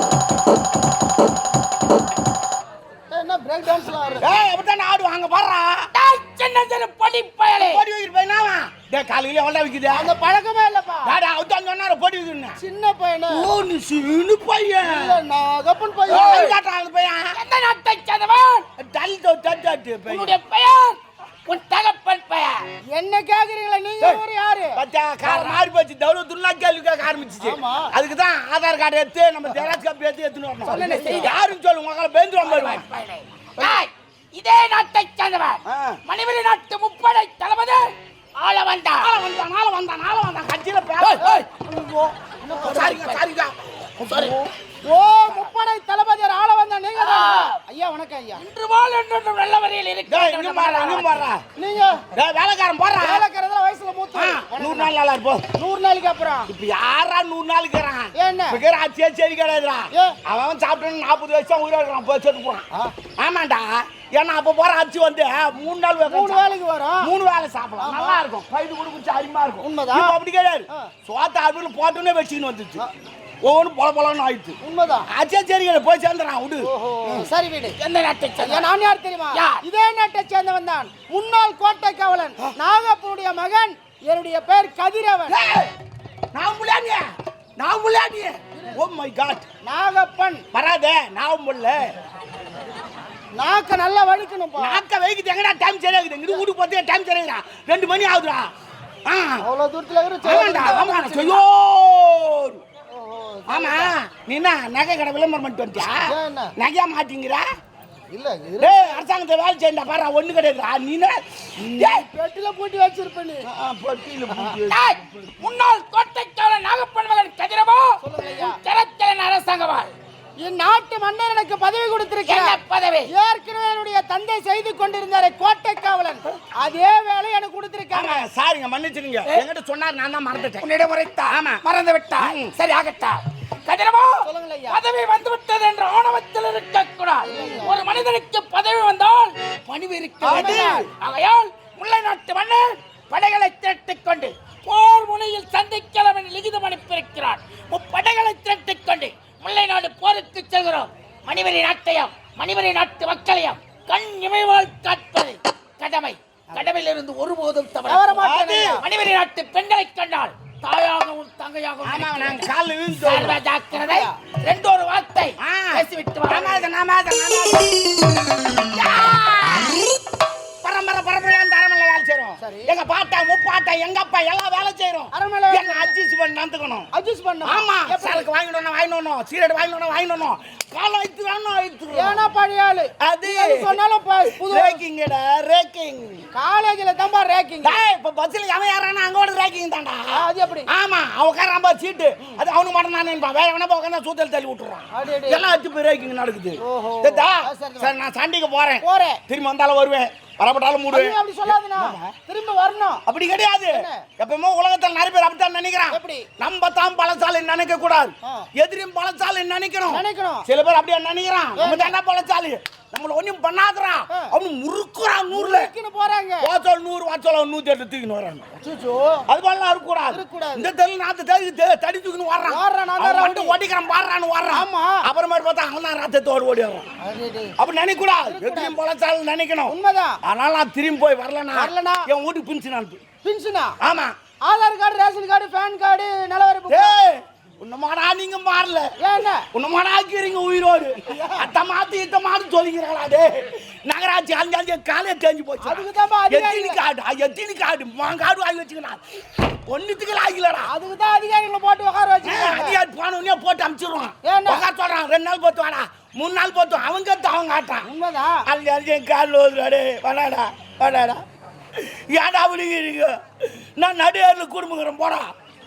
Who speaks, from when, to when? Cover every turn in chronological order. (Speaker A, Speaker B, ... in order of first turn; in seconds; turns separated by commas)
Speaker A: 3.1-4.3, Speaker B: 4.2-5.9, Speaker C: 5.9-7.8, Speaker B: 7.6-10.1, Speaker A: 9.9-11.1, Speaker B: 11.0-12.6, Speaker A: 12.6-13.4, Speaker B: 13.3-15.1, Speaker A: 14.8-16.5, Speaker B: 16.1-17.3, Speaker C: 16.1-16.5, Speaker C: 17.3-18.6, Speaker B: 18.8-20.3, Speaker C: 20.1-22.6, Speaker A: 22.9-24.7, Speaker B: 24.8-32.8, Speaker C: 25.2-25.6, Speaker A: 27.4-27.9, Speaker A: 30.6-31.3, Speaker C: 30.6-31.4, Speaker C: 32.4-39.1, Speaker B: 35.7-36.0, Speaker B: 39.0-41.3, Speaker C: 41.0-41.5, Speaker A: 41.2-42.9, Speaker C: 42.5-43.2, Speaker B: 42.6-44.3, Speaker C: 44.0-44.4, Speaker A: 44.8-48.4, Speaker C: 47.0-47.6, Speaker C: 48.4-51.2, Speaker B: 50.1-51.4, Speaker A: 51.6-52.0, Speaker B: 52.1-53.2, Speaker A: 53.0-54.9, Speaker B: 54.1-55.5, Speaker A: 55.6-56.5, Speaker B: 56.5-62.7, Speaker A: 58.2-58.6, Speaker B: 63.2-66.5, Speaker A: 66.1-67.0, Speaker B: 67.0-72.8, Speaker A: 67.8-68.2, Speaker A: 69.6-70.1, Speaker B: 73.4-74.6, Speaker A: 74.6-75.1, Speaker B: 75.1-77.3, Speaker A: 76.6-77.8, Speaker C: 77.8-78.7, Speaker A: 78.4-85.4, Speaker C: 79.3-79.6, Speaker B: 85.3-85.7, Speaker B: 86.3-87.0, Speaker B: 87.6-89.5, Speaker A: 89.6-90.4, Speaker B: 90.5-91.9, Speaker A: 93.3-94.8, Speaker B: 94.6-98.4, Speaker B: 99.1-99.4, Speaker A: 99.4-101.4, Speaker B: 100.2-102.6, Speaker A: 102.9-103.9, Speaker B: 103.5-106.0, Speaker A: 106.0-106.5, Speaker B: 106.5-107.5, Speaker A: 108.1-109.0, Speaker B: 108.6-112.0, Speaker A: 111.7-113.5, Speaker B: 113.5-115.3, Speaker A: 114.3-114.6, Speaker C: 114.7-119.9, Speaker A: 118.0-118.6, Speaker A: 120.4-128.2, Speaker C: 122.2-123.1, Speaker B: 127.9-130.7, Speaker C: 130.4-158.2, Speaker B: 131.3-131.6, Speaker B: 132.2-132.5, Speaker A: 134.2-134.8, Speaker A: 137.2-138.0, Speaker B: 140.2-140.9, Speaker A: 140.2-140.9, Speaker A: 157.8-158.8, Speaker B: 158.2-158.8, Speaker C: 158.8-162.4, Speaker B: 161.8-163.4, Speaker C: 162.9-166.7, Speaker A: 163.7-164.1, Speaker B: 165.4-167.9, Speaker B: 168.8-169.7, Speaker C: 169.1-169.6, Speaker B: 170.6-176.9, Speaker A: 172.4-172.7, Speaker A: 175.1-175.9, Speaker A: 176.9-178.3, Speaker B: 177.4-182.2, Speaker A: 181.9-184.8, Speaker B: 183.0-186.2, Speaker A: 186.3-187.8, Speaker B: 187.6-202.1, Speaker A: 190.1-190.7, Speaker A: 194.9-195.4, Speaker A: 196.6-197.9, Speaker A: 198.8-199.2, Speaker A: 200.9-203.0, Speaker B: 203.1-215.7, Speaker A: 203.7-204.0, Speaker A: 205.9-206.2, Speaker A: 209.9-210.4, Speaker A: 211.6-211.9, Speaker A: 215.3-216.5, Speaker B: 216.4-218.5, Speaker A: 218.6-219.2, Speaker B: 219.3-226.9, Speaker A: 220.1-220.7, Speaker A: 222.5-223.5, Speaker A: 224.5-224.9, Speaker A: 227.0-227.5, Speaker B: 227.6-233.0, Speaker A: 228.2-228.7, Speaker A: 229.7-230.2, Speaker A: 231.5-232.1, Speaker A: 233.2-233.8, Speaker B: 233.8-234.1, Speaker A: 234.4-236.9, Speaker B: 236.7-238.9, Speaker A: 239.0-239.4, Speaker B: 239.5-250.7, Speaker A: 241.1-241.5, Speaker A: 245.6-246.8, Speaker A: 250.7-252.8, Speaker B: 252.2-257.9, Speaker A: 254.2-254.6, Speaker A: 257.9-258.4, Speaker B: 258.4-261.2, Speaker B: 261.8-265.3